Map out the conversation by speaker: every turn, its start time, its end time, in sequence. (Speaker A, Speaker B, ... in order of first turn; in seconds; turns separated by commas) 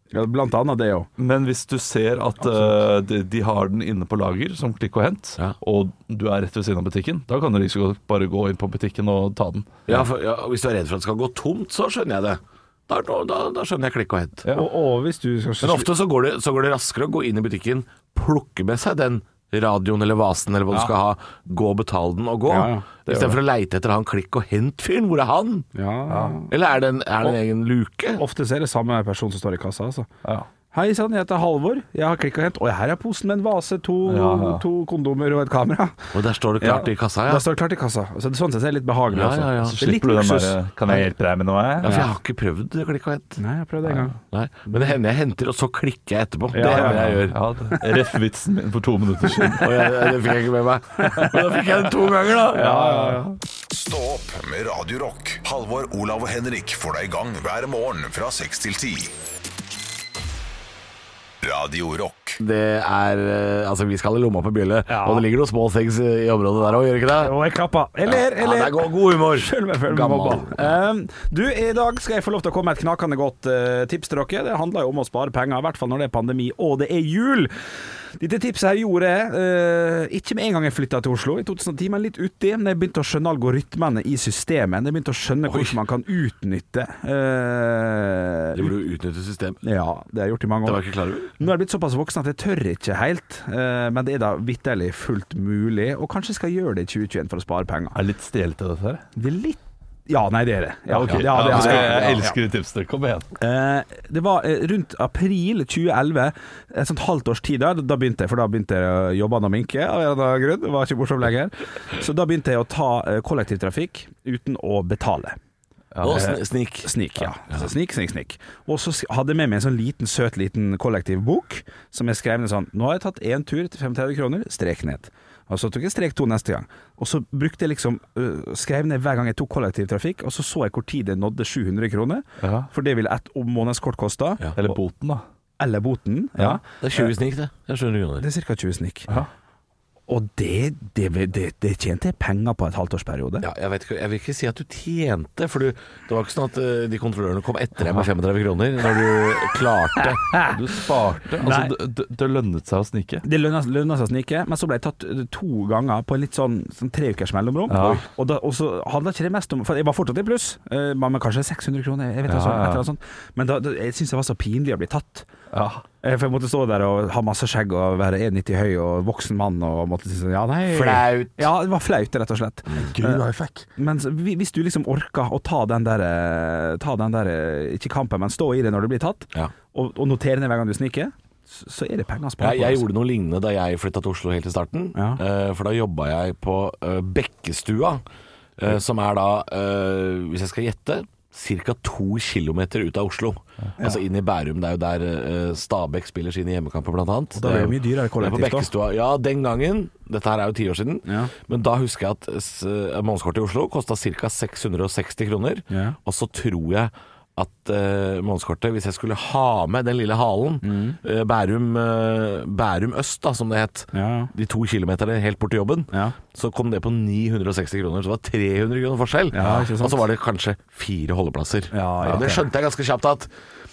Speaker A: 0.1-1.1, Speaker B: 1.2-10.0, Speaker C: 9.9-14.4, Speaker A: 14.5-15.9, Speaker C: 15.6-25.7, Speaker A: 22.5-22.9, Speaker B: 23.1-23.4, Speaker A: 25.7-26.5, Speaker B: 26.1-26.4, Speaker C: 26.5-28.2, Speaker A: 28.2-30.1, Speaker A: 30.7-40.6, Speaker B: 34.0-34.6, Speaker C: 36.1-37.4, Speaker C: 39.1-39.8, Speaker B: 39.6-42.0, Speaker C: 41.8-43.4, Speaker A: 41.8-42.1, Speaker A: 43.4-44.2, Speaker C: 44.2-47.4, Speaker A: 44.7-44.9, Speaker A: 46.5-47.2, Speaker B: 46.6-50.1, Speaker C: 49.6-52.7, Speaker A: 51.0-51.3, Speaker A: 52.5-53.4, Speaker B: 52.5-53.2, Speaker D: 53.7-59.1, Speaker D: 61.4-62.4, Speaker C: 62.4-67.3, Speaker A: 64.9-65.2, Speaker A: 67.2-77.5, Speaker C: 68.0-70.7, Speaker A: 78.2-88.7, Speaker C: 85.5-85.8, Speaker C: 88.5-89.6, Speaker A: 89.6-90.8, Speaker C: 90.6-91.3, Speaker A: 91.3-98.0, Speaker B: 97.9-99.0, Speaker A: 99.2-102.4, Speaker B: 100.9-103.3, Speaker C: 101.0-102.2, Speaker A: 103.4-115.4, Speaker B: 115.9-116.3, Speaker C: 116.0-116.9, Speaker A: 116.0-134.8, Speaker B: 132.4-132.7, Speaker B: 134.6-135.2, Speaker A: 135.6-137.1, Speaker C: 136.8-138.2, Speaker A: 138.2-139.1, Speaker A: 140.1-143.5, Speaker C: 143.4-150.2, Speaker A: 150.0-150.5, Speaker B: 150.4-153.2, Speaker A: 151.4-151.7, Speaker A: 153.2-165.3, Speaker B: 157.7-158.0, Speaker B: 162.3-162.8, Speaker B: 165.5-165.8, Speaker A: 166.0-173.2, Speaker C: 170.7-171.5, Speaker B: 172.8-173.6, Speaker A: 173.8-182.8, Speaker C: 182.4-188.0, Speaker A: 184.9-185.2, Speaker C: 188.6-223.3, Speaker A: 197.3-198.7, Speaker A: 201.1-201.3, Speaker A: 205.7-206.0, Speaker A: 210.6-211.0, Speaker A: 213.9-214.3, Speaker A: 219.3-220.0, Speaker A: 221.7-222.5